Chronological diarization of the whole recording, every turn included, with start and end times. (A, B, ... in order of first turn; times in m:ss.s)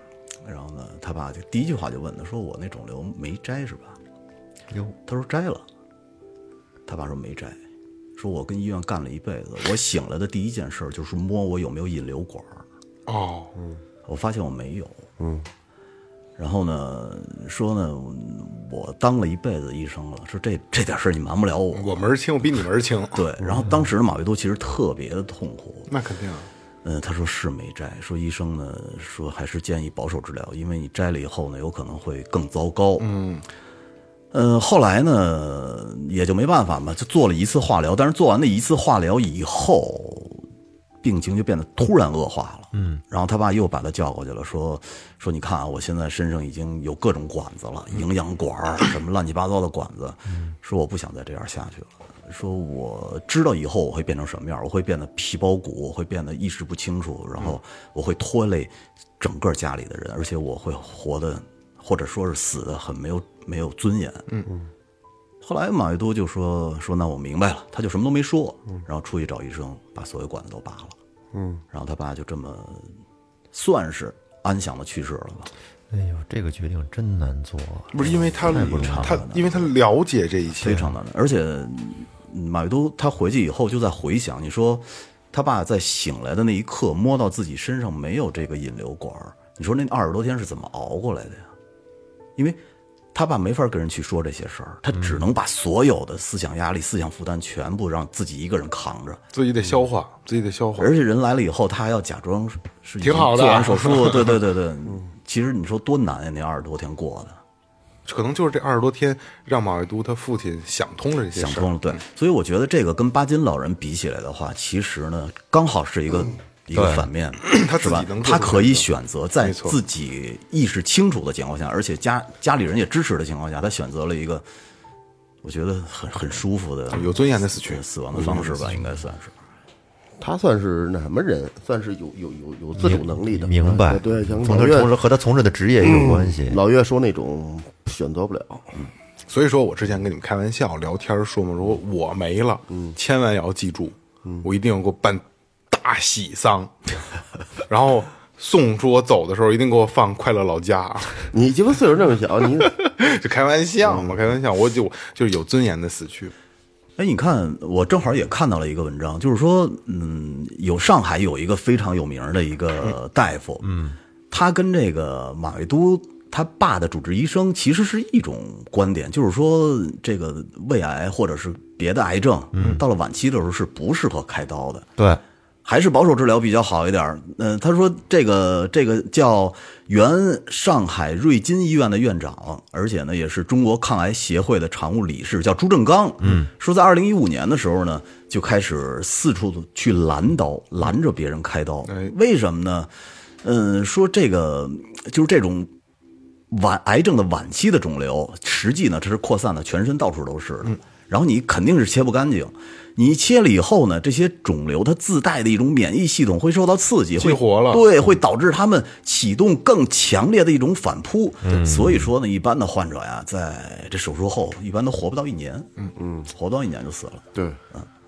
0:00.4-0:04.0 A
0:04.7-0:05.0 B
0:05.1-0:05.6 A
0:06.9-0:07.6 A
0:08.2-0:12.6 A
0:13.1-0:13.6 C
0:14.1-0:15.1 A
0:15.2-0:15.5 D
0:16.4-0:22.1 A
0:21.7-0:23.2 C
0:23.1-0:25.9 A
0:25.9-0:26.5 C
0:26.8-0:33.1 A
0:33.0-0:33.5 C
0:34.3-0:40.4 A
0:41.0-1:04.3 A
0:42.7-0:43.0 B
1:05.4-1:11.0 A
1:11.3-1:11.6 D
1:11.7-1:12.9 A
1:13.5-1:15.5 A
1:15.9-1:19.2 B
1:17.9-1:20.9 C
1:18.0-1:19.7 A
1:20.6-1:31.5 A
1:33.1-1:39.2 A
1:39.3-1:40.9 C
1:40.8-1:47.4 A
1:43.0-1:44.4 C
1:48.1-1:52.0 C
1:51.4-2:04.4 A
1:56.7-1:57.1 B
1:57.5-1:58.9 C
1:59.4-1:59.8 C
2:05.4-2:09.3 A
2:06.9-2:08.7 C
2:10.2-2:14.9 D
2:12.8-2:16.6 B
2:15.8-2:18.7 D
2:19.3-2:26.8 C
2:27.7-2:31.3 C
2:31.3-2:32.7 D
2:32.7-2:36.3 C
2:37.0-2:43.8 A
2:43.6-2:44.0 B
2:44.3-2:54.9 A
2:52.5-2:52.8 B
2:55.6-3:12.9 A
3:06.2-3:06.5 B
3:11.9-3:12.1 C
3:13.4-3:15.7 A
3:16.5-3:35.7 A
3:27.2-3:27.9 C
3:31.4-3:32.1 B
3:36.0-3:36.3 D
3:36.3-3:37.9 A